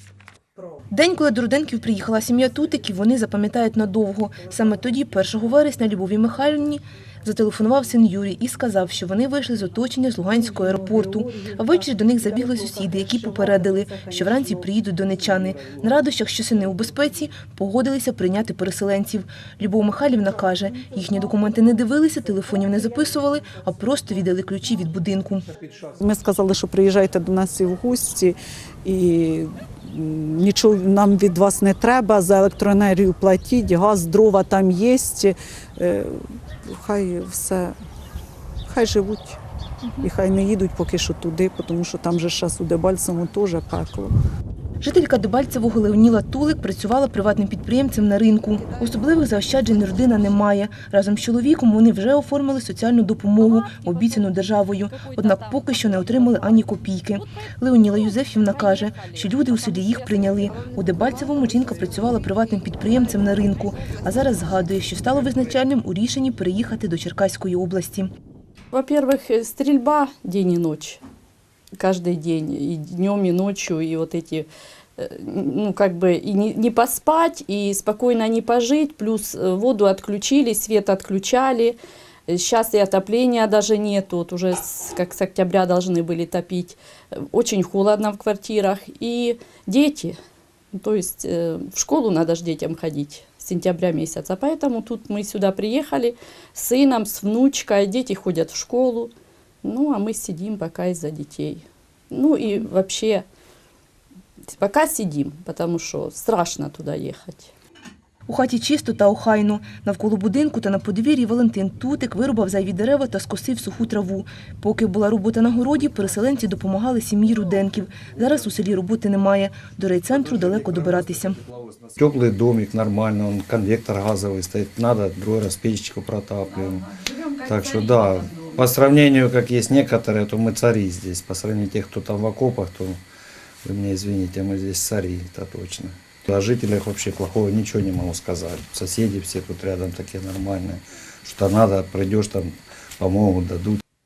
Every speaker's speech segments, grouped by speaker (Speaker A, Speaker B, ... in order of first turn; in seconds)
Speaker A: 0.9-25.5, 44.8-68.1, 108.3-121.4
Speaker B: 26.0-37.8, 38.7-39.4, 40.0-44.1
Speaker C: 53.4-54.3, 54.8-56.6, 58.5-62.2, 68.7-71.0, 71.8-90.2, 90.7-103.2, 104.5-107.5, 126.5-128.6
Speaker D: 122.0-126.9, 127.4-133.0, 133.6-143.8